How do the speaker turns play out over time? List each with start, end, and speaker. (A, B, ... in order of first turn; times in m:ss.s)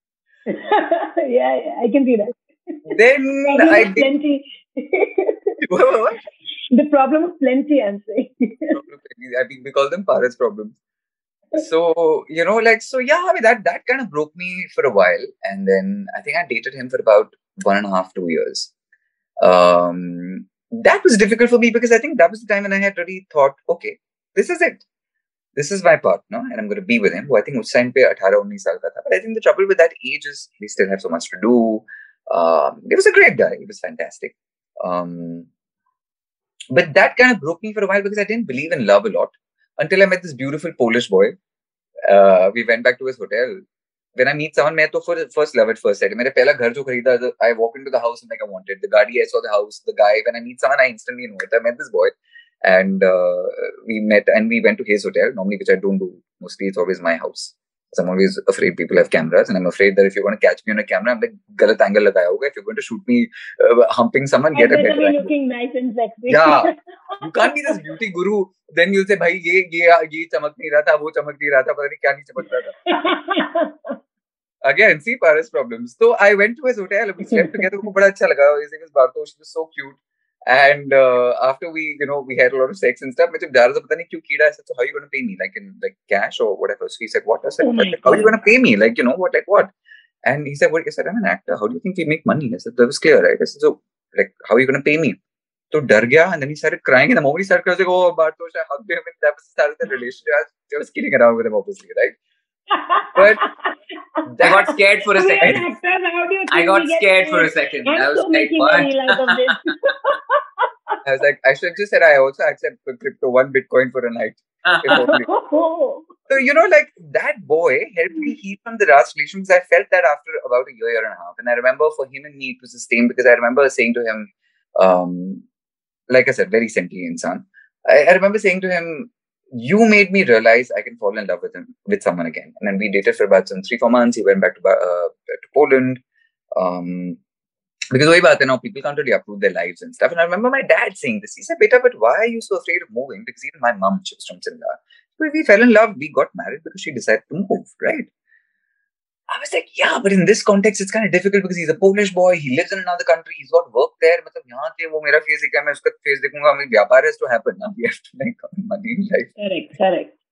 0:00.5-0:02.9 A
0:02.9-0:04.1 B
0:03.4-0:05.6 A
0:05.6-0:06.2 B
0:06.7-0:08.8 A
0:08.7-0:10.8 B
0:11.6-0:18.7 B
0:19.4-0:24.8 B
0:25.6-0:35.5 B
0:36.7-0:41.4 B
0:42.0-0:43.6 B
0:44.2-1:05.3 B
1:04.6-1:07.8 A
1:06.3-1:12.8 B
1:12.9-1:14.0 A
1:14.6-1:29.7 B
1:17.2-1:17.7 A
1:27.6-1:28.4 A
1:30.2-1:35.2 B
1:35.7-1:42.2 B
1:42.7-1:43.7 A
1:43.2-1:43.4 B
1:44.2-1:44.7 B
1:44.4-1:45.6 C
1:45.2-1:51.0 A
1:46.5-1:49.5 C
1:51.0-1:55.3 B
1:54.6-1:55.1 C
1:54.9-1:56.2 A
1:56.3-2:05.4 B
2:06.1-2:16.0 B
2:16.6-2:17.2 B
2:17.9-2:28.1 B
2:29.3-2:39.3 B
2:39.4-2:40.1 A